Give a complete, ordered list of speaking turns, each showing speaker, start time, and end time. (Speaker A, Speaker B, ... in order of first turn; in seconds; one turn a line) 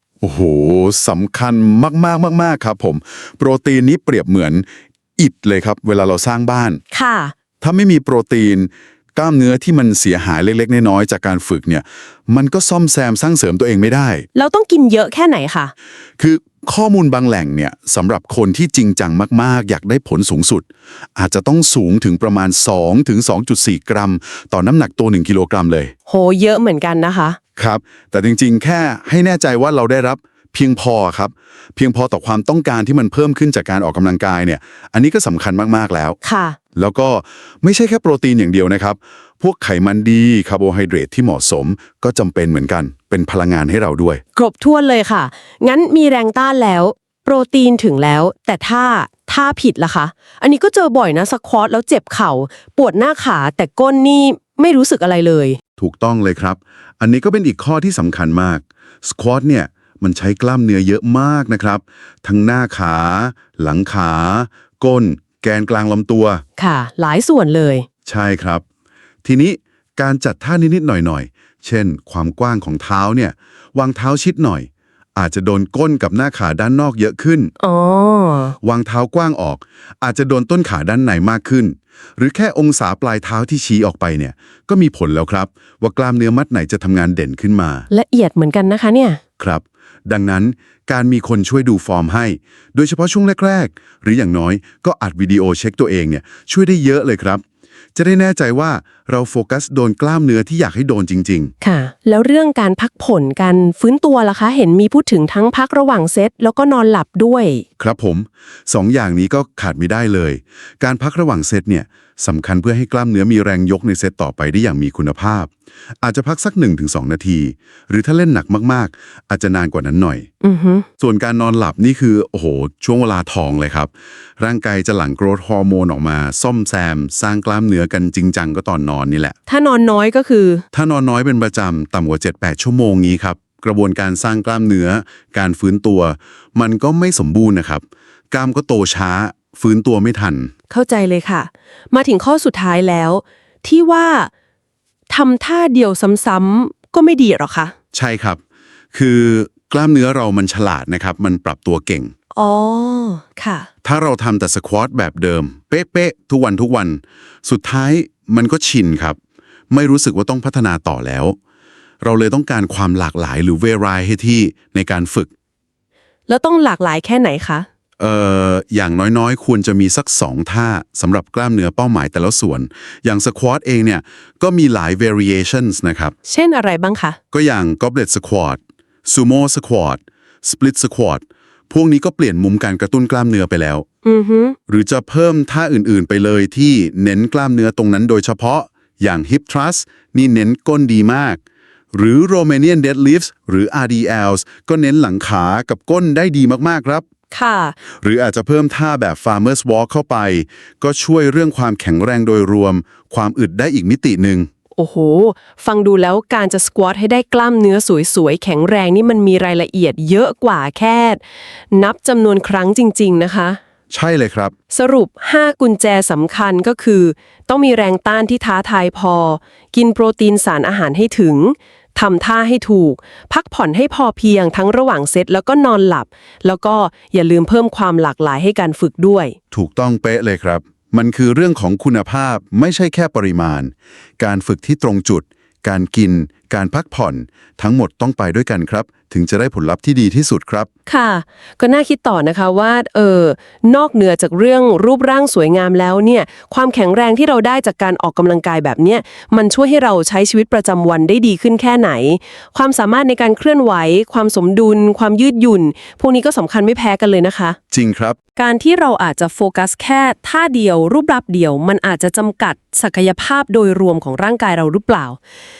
Speaker A: 0.2-4.7
Speaker A: 5.2-6.8
Speaker B: 6.9-7.3
Speaker A: 7.6-14.3
Speaker B: 14.3-15.7
Speaker A: 16.2-25.9
Speaker B: 26.1-27.4
Speaker A: 27.6-36.2
Speaker B: 36.2-36.6
Speaker A: 36.8-44.2
Speaker B: 44.4-55.6
Speaker A: 55.8-66.4
Speaker B: 66.6-67.9
Speaker A: 68.1-68.6
Speaker A: 69.2-77.5
Speaker B: 77.6-78.6
Speaker A: 78.6-87.9
Speaker B: 87.9-89.2
Speaker A: 89.4-97.4
Speaker A: 98.0-101.5
Speaker B: 101.6-107.6
Speaker A: 107.8-115.5
Speaker A: 116.0-120.3
Speaker B: 120.4-120.9
Speaker A: 121.0-129.4
Speaker B: 129.5-130.6
Speaker A: 130.7-140.5
Speaker B: 140.7-144.3
Speaker B: 145.1-147.7
Speaker A: 147.9-148.4
Speaker A: 148.9-152.1
Speaker B: 152.3-153.7
Speaker A: 153.8-159.2
Speaker A: 159.7-161.4
Speaker A: 162.0-165.3
Speaker B: 166.3-167.7
Speaker A: 168.0-176.1
Speaker B: 176.2-177.2
Speaker A: 177.3-183.8
Speaker B: 184.0-184.6
Speaker A: 184.7-191.4
Speaker A: 191.9-197.0
Speaker B: 197.3-197.8
Speaker A: 198.0-204.5
Speaker B: 204.8-213.6
Speaker A: 213.9-214.5
Speaker B: 214.7-229.4
Speaker A: 229.5-240.7
Speaker B: 240.9-257.6
Speaker A: 257.7-258.2
Speaker B: 258.4-265.2